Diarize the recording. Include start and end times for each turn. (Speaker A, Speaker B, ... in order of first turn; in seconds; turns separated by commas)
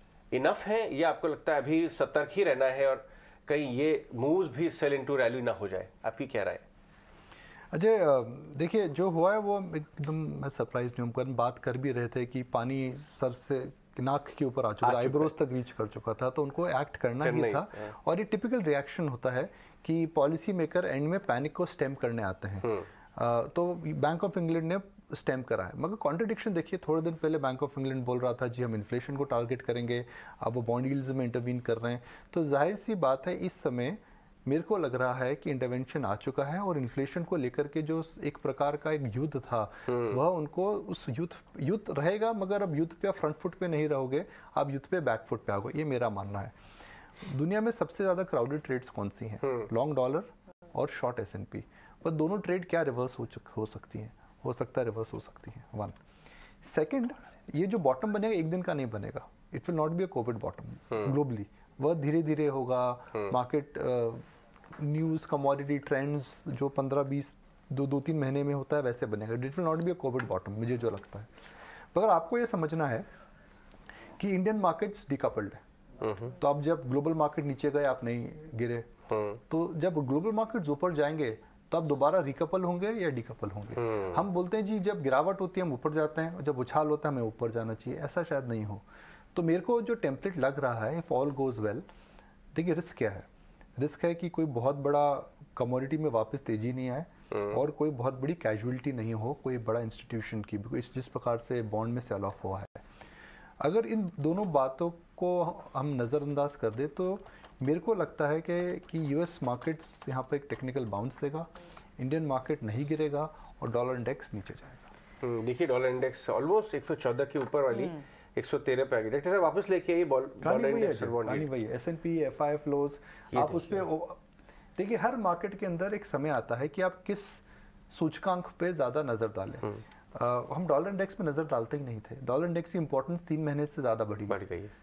Speaker A: 0.3-6.6, Speaker B: 7.7-46.5, Speaker A: 14.8-15.3, Speaker A: 17.2-17.9, Speaker A: 39.9-40.1, Speaker B: 47.2-56.0, Speaker B: 56.6-64.2, Speaker B: 64.7-71.3, Speaker B: 71.9-73.0, Speaker B: 74.2-75.6, Speaker A: 76.0-76.3, Speaker B: 76.3-78.9, Speaker A: 79.1-79.4, Speaker B: 79.5-91.8, Speaker A: 83.8-84.2, Speaker B: 92.5-93.3, Speaker B: 93.8-102.8, Speaker B: 103.6-114.9, Speaker A: 115.2-121.5, Speaker B: 120.4-124.2, Speaker A: 123.3-123.8, Speaker B: 124.8-134.4, Speaker A: 134.3-134.7